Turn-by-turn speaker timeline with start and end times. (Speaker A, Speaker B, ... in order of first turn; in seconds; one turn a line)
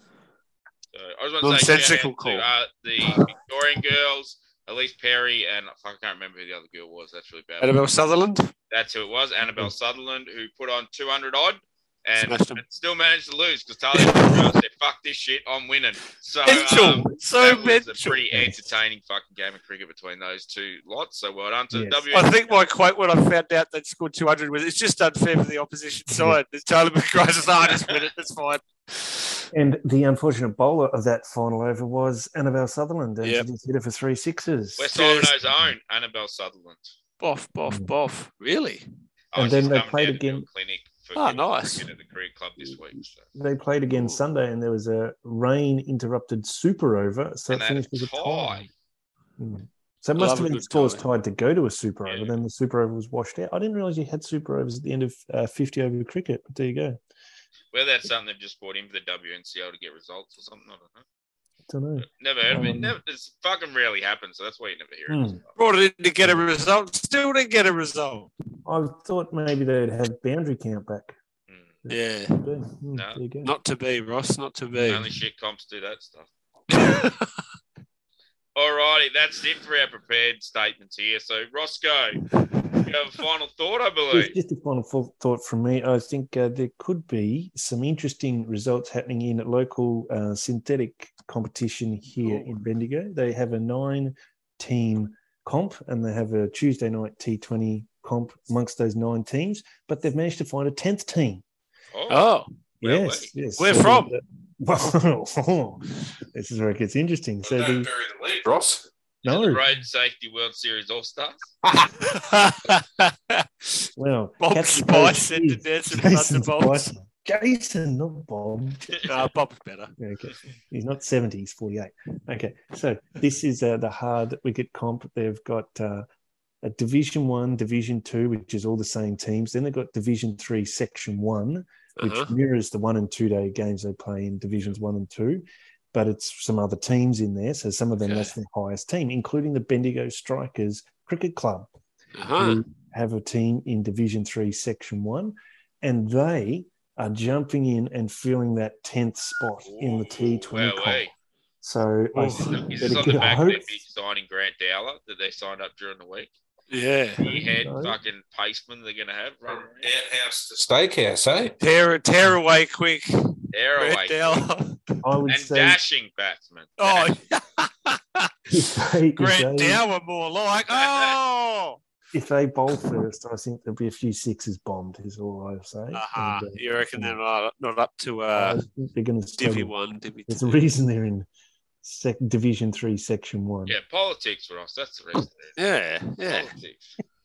Speaker A: 0.9-7.8
Speaker B: 1.4-2.5
Speaker B: 7.6-8.5
Speaker A: 8.7-22.6
Speaker B: 12.2-12.6
Speaker B: 13.9-14.5
Speaker B: 16.4-18.2
Speaker C: 18.3-18.6
Speaker C: 21.7-22.0
Speaker B: 22.1-29.5
Speaker C: 26.1-26.4
Speaker C: 29.5-34.9
Speaker B: 33.2-33.5
Speaker A: 34.8-36.9
Speaker B: 34.9-35.3
Speaker B: 37.2-38.9
Speaker C: 37.7-37.9
Speaker A: 39.3-43.2
Speaker C: 39.3-40.5
Speaker B: 41.1-41.9
Speaker C: 43.3-48.7
Speaker B: 43.9-44.2
Speaker A: 47.5-48.7
Speaker C: 49.4-57.0
Speaker B: 50.1-51.0
Speaker A: 52.1-52.3
Speaker A: 57.7-61.0
Speaker C: 61.7-63.0
Speaker A: 62.0-65.4
Speaker C: 65.1-65.4
Speaker B: 65.6-68.3
Speaker C: 68.6-71.1
Speaker C: 71.8-73.5
Speaker B: 71.9-72.5
Speaker A: 72.9-73.2
Speaker B: 73.4-75.1
Speaker A: 74.9-76.3
Speaker B: 76.7-77.3
Speaker A: 78.5-82.2
Speaker A: 82.8-84.3
Speaker C: 84.1-101.4
Speaker B: 92.2-92.5
Speaker A: 101.9-102.3
Speaker B: 102.1-102.5
Speaker C: 102.8-107.9
Speaker A: 102.8-103.3
Speaker B: 103.6-104.1
Speaker D: 107.4-108.9
Speaker C: 109.2-109.6
Speaker A: 109.2-111.4
Speaker D: 111.6-111.9
Speaker B: 112.0-113.9
Speaker C: 114.0-119.3
Speaker B: 114.4-116.9
Speaker B: 119.0-119.9
Speaker C: 120.0-126.0
Speaker C: 126.6-141.7
Speaker B: 132.0-132.3
Speaker B: 138.0-138.3
Speaker B: 142.2-142.6
Speaker C: 142.3-151.1
Speaker A: 149.6-151.1
Speaker C: 151.6-153.8
Speaker B: 152.1-152.7
Speaker A: 152.6-156.3
Speaker B: 156.7-157.2
Speaker A: 157.2-159.9
Speaker C: 157.2-158.0
Speaker D: 159.7-161.6
Speaker B: 161.6-163.1
Speaker A: 163.5-164.4
Speaker B: 163.7-165.0
Speaker C: 165.0-165.8
Speaker A: 165.3-167.2
Speaker B: 166.8-168.3
Speaker C: 168.5-169.8
Speaker B: 169.2-171.8
Speaker A: 170.7-171.2
Speaker C: 172.1-177.2
Speaker B: 175.9-178.6
Speaker C: 178.3-179.7
Speaker B: 179.4-180.6
Speaker C: 180.3-181.3
Speaker C: 181.8-183.8
Speaker A: 183.7-185.5
Speaker B: 185.6-186.5
Speaker A: 186.2-187.0